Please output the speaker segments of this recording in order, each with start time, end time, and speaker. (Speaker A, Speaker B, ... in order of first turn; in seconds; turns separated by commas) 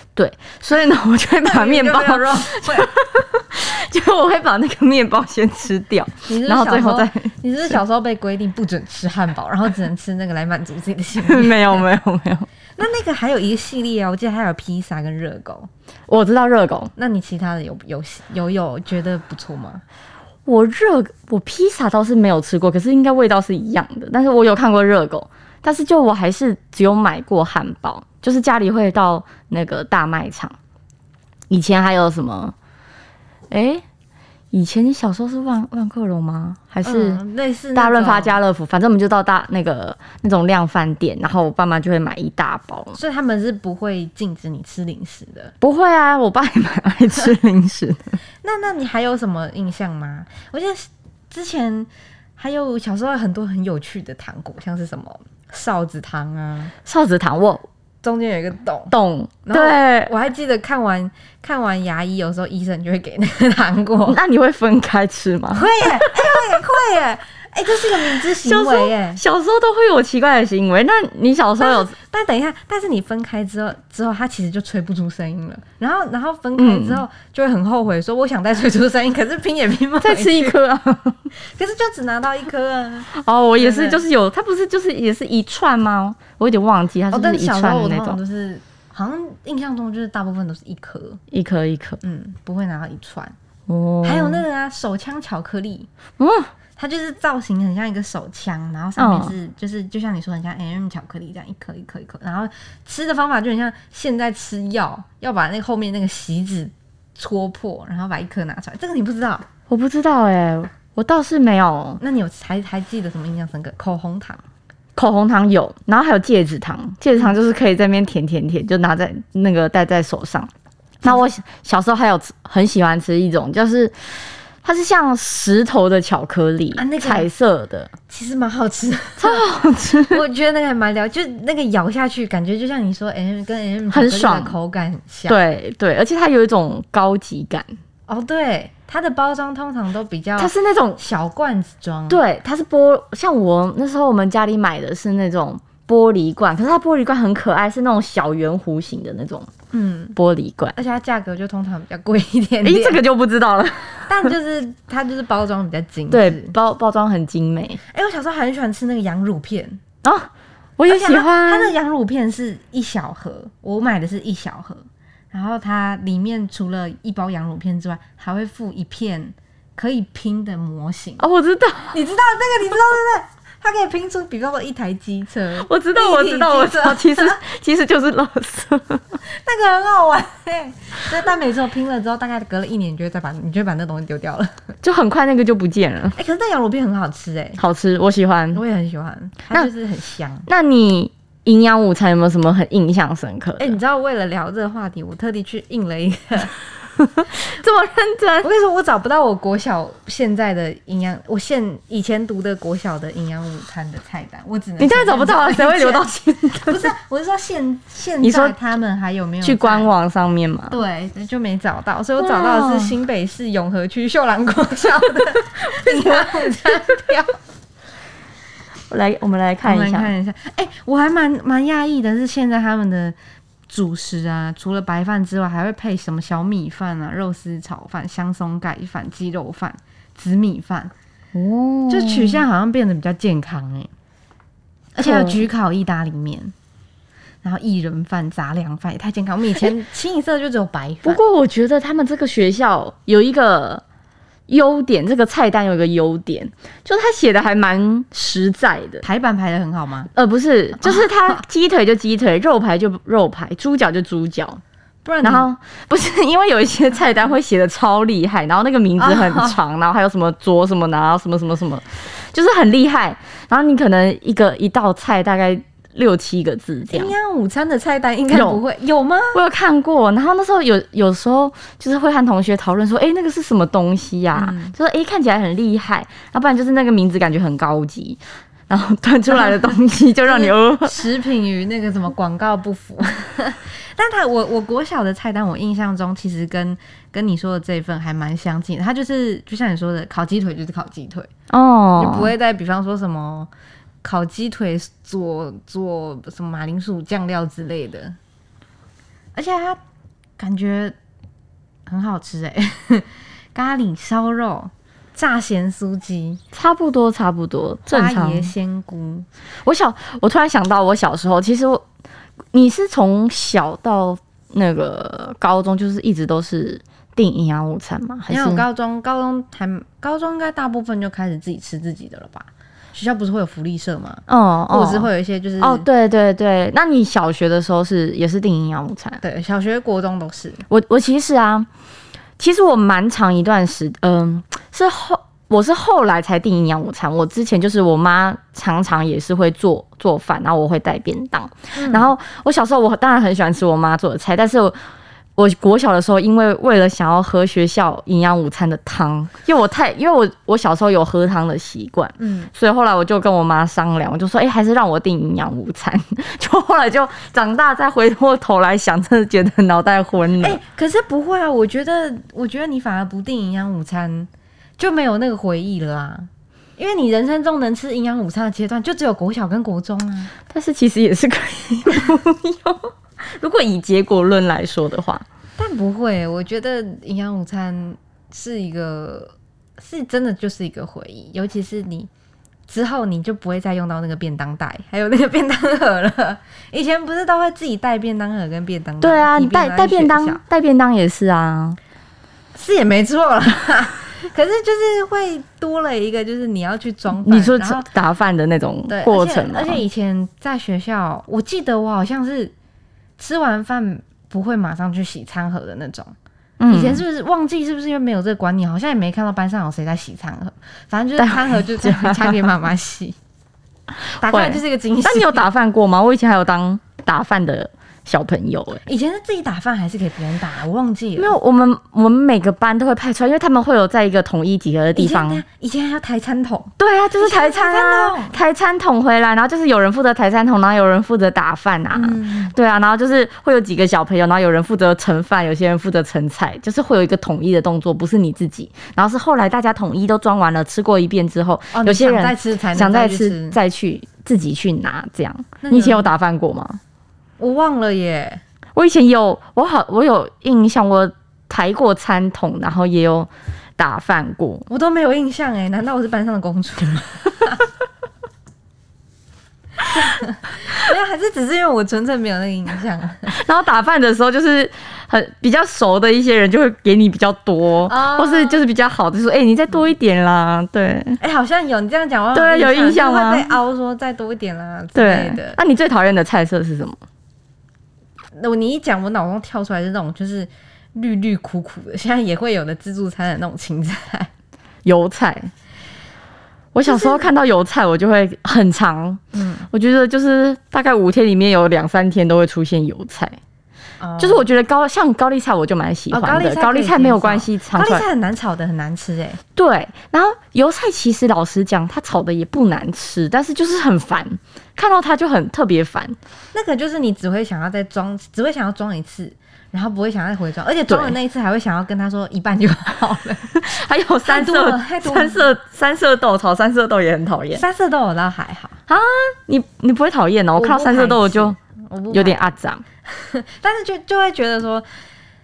Speaker A: 0.1-7.4, Speaker B: 1.4-2.9, Speaker B: 6.3-11.8, Speaker A: 11.2-12.5, Speaker B: 12.8-15.7, Speaker A: 16.1-16.9, Speaker B: 16.9-19.8, Speaker A: 20.4-30.6, Speaker A: 31.5-32.5, Speaker A: 33.5-33.8, Speaker A: 34.5-37.2, Speaker B: 36.8-38.4, Speaker A: 37.7-43.0, Speaker B: 42.9-45.5, Speaker A: 45.6-48.2, Speaker B: 48.4-56.7, Speaker A: 56.8-57.6, Speaker B: 58.0-58.9, Speaker A: 58.9-60.1, Speaker B: 59.5-64.2, Speaker A: 64.0-66.6, Speaker B: 65.5-69.2, Speaker A: 68.3-71.9, Speaker B: 71.6-80.5, Speaker A: 76.6-77.0, Speaker A: 80.0-81.2, Speaker B: 81.4-84.0, Speaker A: 83.1-88.2, Speaker B: 87.1-91.2, Speaker A: 91.3-92.0, Speaker B: 92.0-93.3, Speaker A: 93.7-94.4, Speaker B: 94.0-95.9, Speaker A: 96.2-96.5, Speaker B: 96.8-109.5, Speaker A: 99.0-99.3, Speaker A: 109.7-112.0, Speaker B: 112.0-114.4, Speaker A: 115.0-120.5, Speaker A: 121.0-123.9, Speaker A: 124.6-127.9, Speaker B: 126.7-127.3, Speaker B: 128.1-135.4, Speaker A: 129.2-130.2, Speaker A: 133.9-134.5, Speaker A: 135.3-137.8, Speaker B: 138.1-142.2, Speaker A: 140.4-141.0, Speaker A: 142.1-149.5, Speaker B: 149.7-150.2, Speaker A: 150.2-150.8, Speaker B: 150.8-153.0, Speaker A: 152.6-154.2, Speaker B: 154.1-156.5, Speaker A: 156.1-157.8, Speaker B: 157.9-159.8, Speaker A: 160.0-161.7, Speaker B: 160.9-171.2, Speaker A: 171.2-172.0, Speaker B: 171.9-177.4, Speaker A: 175.6-179.2, Speaker B: 179.3-184.6, Speaker A: 184.8-186.2, Speaker B: 186.2-187.6, Speaker A: 187.6-188.6, Speaker B: 188.5-190.5, Speaker A: 190.5-193.8, Speaker B: 193.6-196.5, Speaker A: 197.0-198.5, Speaker B: 198.4-206.1, Speaker A: 204.8-206.9, Speaker B: 206.7-209.9, Speaker A: 208.2-208.5, Speaker A: 209.4-210.8, Speaker B: 210.7-217.4, Speaker A: 212.2-212.9, Speaker A: 215.3-217.0, Speaker A: 218.9-220.1, Speaker B: 219.6-223.2, Speaker B: 223.7-230.9, Speaker A: 231.3-232.4, Speaker B: 231.9-233.9, Speaker B: 234.9-236.5, Speaker A: 235.0-235.4, Speaker B: 237.4-241.2, Speaker A: 241.0-243.8, Speaker A: 244.5-249.0, Speaker B: 249.0-250.1, Speaker A: 250.1-254.6, Speaker B: 250.8-251.1, Speaker B: 255.0-255.5, Speaker A: 255.2-267.1, Speaker B: 259.0-259.6, Speaker B: 266.9-269.4, Speaker A: 268.3-268.6, Speaker A: 269.3-281.0, Speaker B: 274.3-274.7, Speaker B: 279.3-279.7, Speaker B: 280.2-291.3, Speaker A: 291.5-292.3, Speaker B: 292.0-293.5, Speaker B: 294.0-298.1, Speaker B: 299.3-299.8, Speaker B: 300.4-300.9, Speaker B: 301.9-306.4, Speaker A: 306.5-308.5, Speaker B: 307.9-309.2, Speaker A: 309.6-311.8, Speaker A: 312.5-318.6, Speaker B: 318.3-325.9, Speaker A: 324.3-325.1, Speaker A: 325.6-329.2, Speaker B: 329.2-330.6, Speaker A: 330.7-331.7, Speaker A: 332.4-344.8, Speaker B: 341.7-342.1, Speaker A: 345.4-360.6, Speaker B: 352.2-352.5, Speaker B: 360.4-370.3, Speaker A: 370.5-375.2, Speaker B: 375.6-382.1, Speaker B: 382.7-390.4, Speaker A: 389.0-391.8, Speaker B: 392.5-397.9, Speaker A: 397.2-399.8, Speaker B: 398.9-402.5, Speaker B: 403.2-406.1, Speaker A: 406.6-407.0, Speaker B: 406.7-413.1, Speaker A: 411.2-412.4, Speaker A: 414.1-418.8, Speaker B: 414.2-415.5, Speaker B: 418.9-421.3, Speaker A: 421.2-425.4, Speaker B: 424.9-428.4, Speaker A: 426.8-446.8, Speaker B: 431.9-432.5, Speaker B: 441.7-443.6, Speaker B: 445.6-446.1, Speaker B: 447.4-448.4, Speaker A: 448.8-454.6, Speaker B: 454.7-457.6, Speaker B: 459.9-463.3, Speaker A: 463.3-471.2, Speaker B: 467.9-468.6, Speaker B: 471.2-475.6, Speaker A: 472.3-473.5, Speaker A: 474.9-477.0, Speaker B: 478.4-484.3, Speaker A: 484.8-485.5, Speaker A: 486.7-493.4, Speaker B: 486.8-487.3, Speaker B: 489.3-489.7, Speaker B: 494.0-494.5, Speaker A: 494.2-498.0, Speaker B: 496.1-499.4, Speaker A: 499.6-506.2, Speaker B: 506.5-513.5, Speaker A: 510.9-511.1, Speaker A: 513.5-517.6, Speaker B: 514.2-515.5, Speaker B: 517.5-518.8, Speaker A: 518.9-521.5, Speaker B: 520.6-522.4, Speaker A: 522.1-522.8, Speaker B: 523.0-524.9